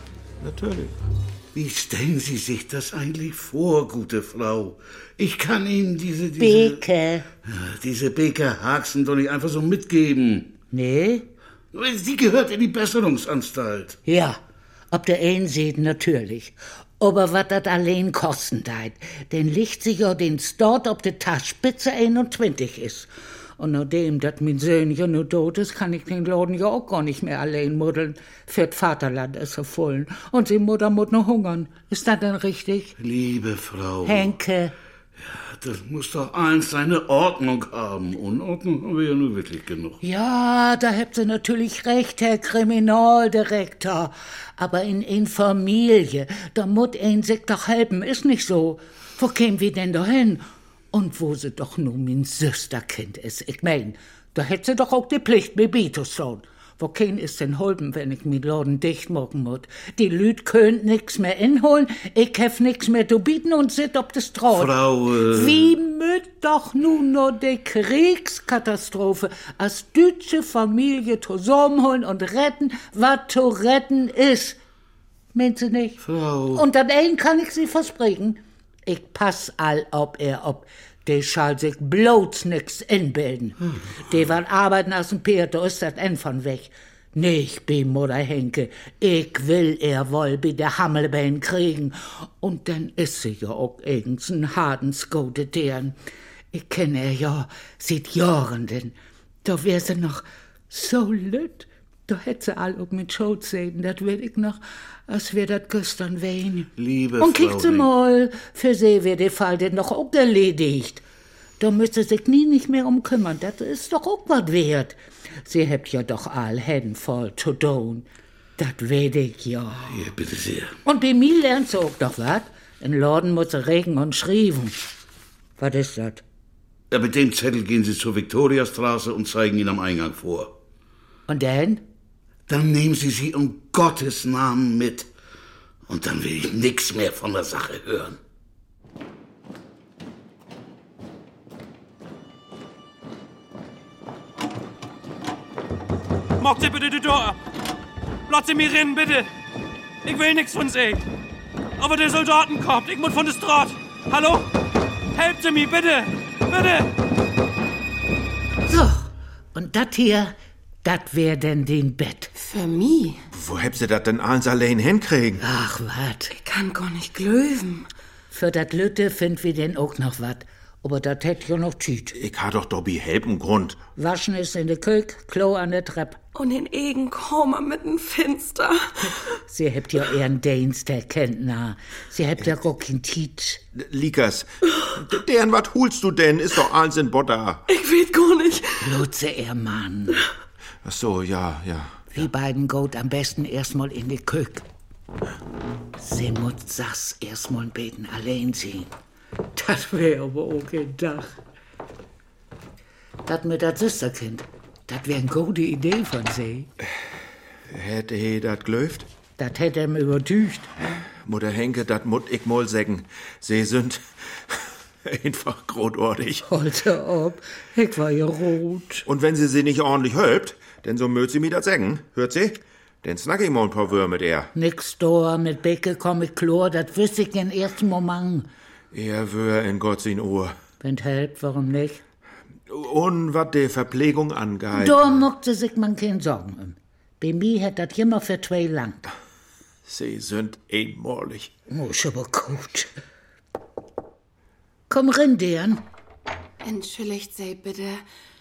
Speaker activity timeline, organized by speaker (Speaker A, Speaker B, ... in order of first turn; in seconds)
Speaker A: 0.4-1.0, 163.3-165.4, 172.1-173.8, 183.8-187.6, 190.8-192.2, 207.7-209.1, 211.2-216.5, 219.1-224.5, 228.9-230.6, 232.7-235.1, 239.8-241.5
Speaker B: 1.5-6.8, 7.5-10.5, 11.7-14.0, 33.0-34.4, 35.2-40.0, 64.5-65.7, 76.0-76.6, 106.8-107.9, 119.9-120.8, 126.9-130.5, 132.5-135.1, 135.9-138.2
Speaker C: 6.4-7.3, 10.7-11.3, 14.1-14.4, 14.9-33.0, 34.0-34.7, 40.0-74.6, 75.3-76.0, 76.5-96.0, 96.5-111.0, 111.6-118.1, 118.6-119.9, 120.8-124.8, 125.6-126.2, 131.3-131.8, 158.7-162.3, 165.4-166.3, 168.3-172.2, 174.0-176.2, 179.1-183.6, 188.8-190.2, 192.1-194.7, 196.0-198.9, 199.6-201.3, 203.3-206.7, 209.4-210.7, 216.4-219.1, 224.6-228.5, 230.8-232.0, 234.7-239.1, 241.7-242.9, 244.9-245.8
Speaker D: 146.4-147.4, 148.3-149.3, 150.1-151.0, 151.8-154.5, 155.2-156.9
Speaker E: 162.3-163.2, 166.3-167.9, 246.6-248.1
Speaker F: 176.3-178.9, 187.7-188.7